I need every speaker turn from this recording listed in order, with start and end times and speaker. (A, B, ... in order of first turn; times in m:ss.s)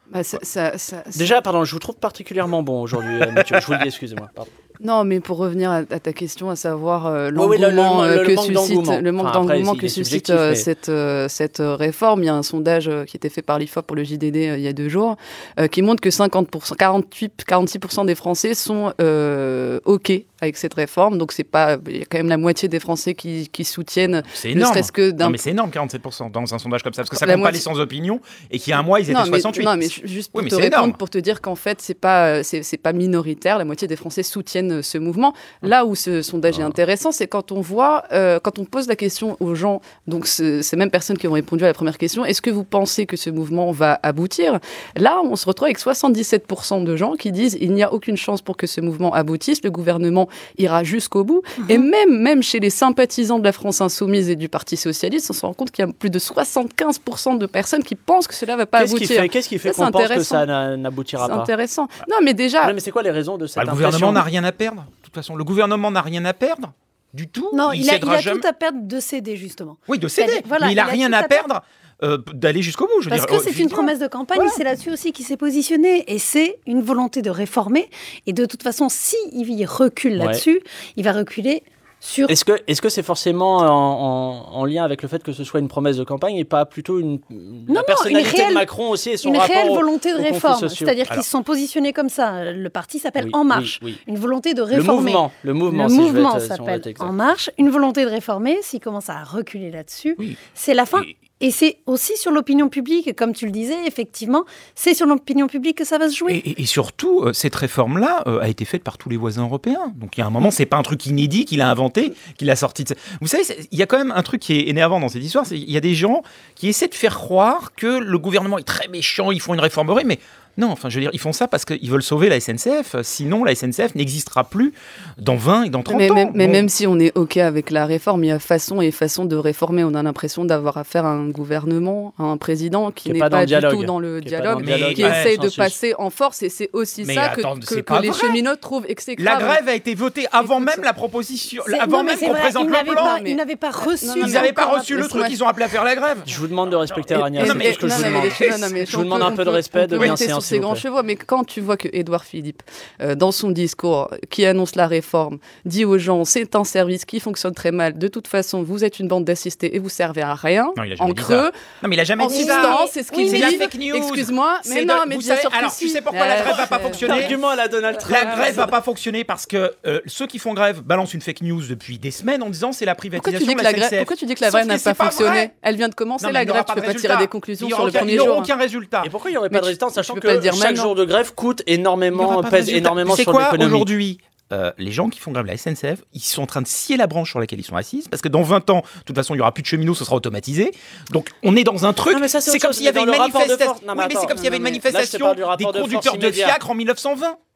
0:00.1-0:01.4 A
0:01.2-0:04.5 B
0:04.8-0:25.4 A
0:07.4-0:10.7 B
0:24.3-0:31.0 C
0:27.1-0:27.7 A
0:29.1-1:00.4 A
0:58.8-1:01.5 B
1:01.2-1:02.8 A
1:02.6-1:04.3 B
1:03.6-1:08.4 C
1:07.5-1:11.4 D
1:09.9-1:13.9 C
1:13.1-1:22.4 D
1:20.2-1:20.4 B
1:22.3-1:31.0 B
1:27.7-1:28.7 D
1:29.2-1:46.4 D
1:33.2-1:34.0 B
1:34.7-1:37.1 B
1:46.3-2:06.7 C
2:05.9-2:19.6 A
2:13.0-2:15.8 B
2:14.6-2:15.3 C
2:17.0-2:18.4 C
2:19.2-2:23.2 C
2:20.4-2:20.9 A
2:21.7-2:25.4 D
2:22.8-2:23.4 A
2:24.0-2:24.5 A
2:24.2-2:26.4 C
2:26.3-2:30.8 B
2:27.1-2:28.6 C
2:27.2-2:41.5 A
2:40.8-2:47.4 C
2:42.2-2:47.4 A
2:42.2-2:43.7 D
2:46.4-2:48.8 B
2:48.0-2:55.5 C
2:53.2-2:58.5 A
2:56.2-2:59.1 C
2:59.0-3:03.9 B
2:59.5-3:00.9 A
3:02.1-3:17.4 C
3:12.1-3:16.6 B
3:14.3-3:14.8 A